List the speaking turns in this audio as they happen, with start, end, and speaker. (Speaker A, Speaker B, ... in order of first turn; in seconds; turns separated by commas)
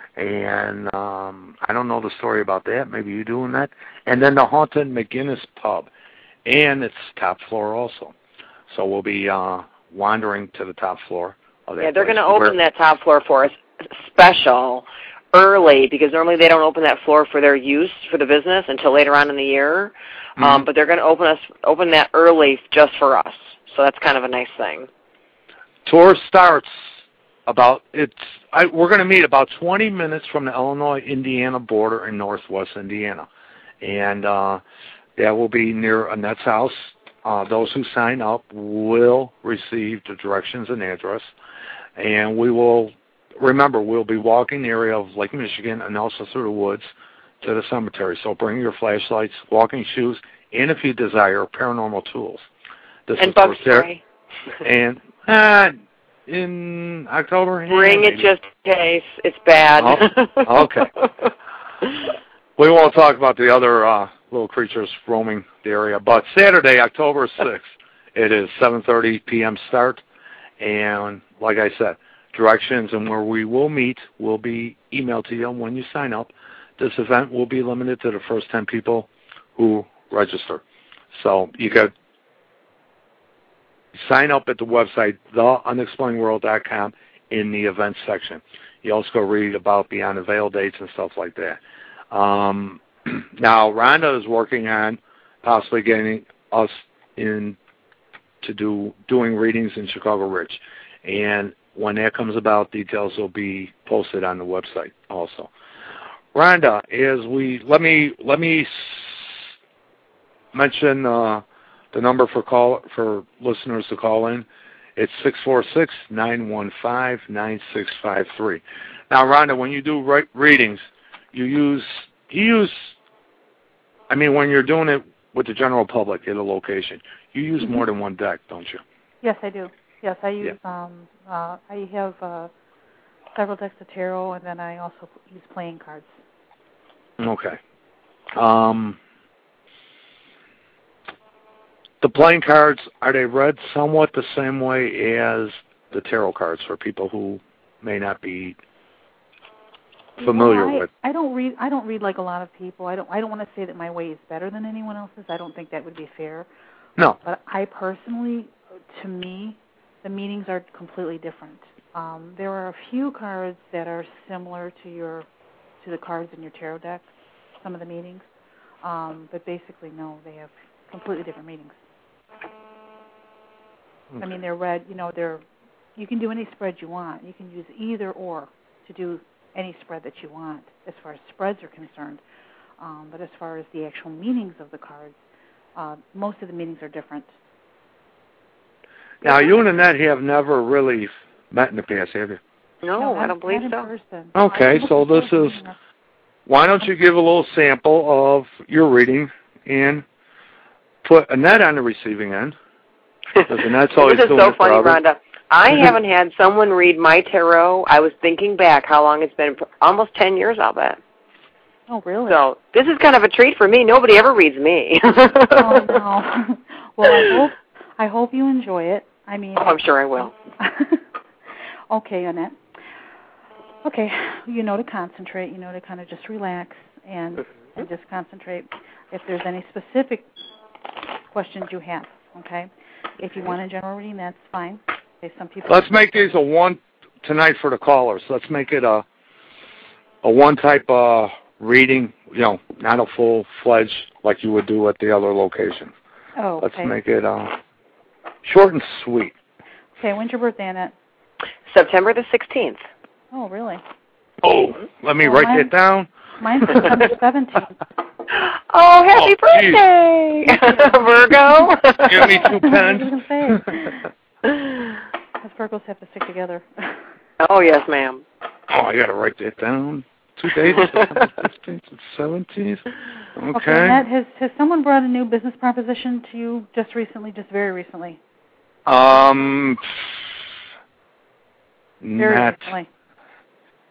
Speaker A: 0.2-5.9, Speaker A: 6.5-8.1, Speaker A: 8.7-12.6, Speaker B: 11.8-24.9, Speaker A: 20.4-20.6, Speaker A: 25.9-26.8, Speaker A: 27.5-33.3, Speaker A: 33.8-34.6, Speaker A: 35.2-41.3, Speaker A: 42.0-46.9, Speaker A: 47.4-52.5, Speaker A: 53.1-53.9, Speaker B: 53.2-54.0, Speaker A: 54.6-55.8, Speaker A: 56.3-58.3, Speaker B: 57.7-60.7, Speaker A: 59.8-60.9, Speaker A: 62.6-70.0, Speaker A: 70.6-80.6, Speaker A: 81.1-81.9, Speaker A: 83.9-97.6, Speaker A: 98.4-105.5, Speaker A: 106.3-109.5, Speaker A: 110.5-114.5, Speaker A: 115.0-122.9, Speaker A: 124.1-128.8, Speaker C: 129.2-132.5, Speaker C: 133.3-136.2, Speaker A: 137.2-137.6, Speaker A: 138.3-139.0, Speaker A: 142.0-148.6, Speaker C: 150.2-156.5, Speaker A: 150.2-150.9, Speaker C: 157.2-165.3, Speaker C: 165.8-167.1, Speaker C: 167.6-168.2, Speaker C: 168.8-171.8, Speaker C: 174.2-175.4, Speaker C: 176.0-182.2, Speaker C: 182.8-185.2, Speaker C: 185.8-187.3, Speaker A: 189.2-192.4, Speaker B: 192.8-193.9, Speaker C: 193.0-195.8, Speaker A: 194.3-195.6, Speaker A: 196.5-200.1, Speaker A: 201.0-202.6, Speaker B: 203.4-211.0, Speaker A: 203.5-205.0, Speaker C: 211.9-212.4, Speaker B: 212.3-215.9, Speaker C: 215.5-221.0, Speaker B: 219.6-220.3, Speaker C: 221.9-222.6, Speaker C: 223.8-230.3, Speaker C: 231.3-232.7, Speaker C: 233.2-236.3, Speaker A: 235.7-239.1, Speaker A: 240.2-245.9, Speaker C: 246.4-246.9, Speaker A: 246.6-247.6, Speaker A: 248.4-249.3, Speaker C: 250.0-250.9, Speaker B: 251.7-252.8, Speaker C: 253.3-253.8, Speaker A: 254.4-256.1, Speaker C: 255.2-255.7, Speaker C: 256.4-257.8, Speaker A: 256.6-256.9, Speaker B: 258.3-262.4, Speaker A: 259.1-259.8, Speaker A: 262.1-263.6, Speaker C: 262.2-263.9, Speaker C: 265.4-267.0, Speaker B: 267.4-268.2, Speaker A: 268.7-274.0, Speaker C: 273.5-278.2, Speaker A: 278.9-279.8, Speaker A: 282.0-282.7, Speaker C: 282.2-282.9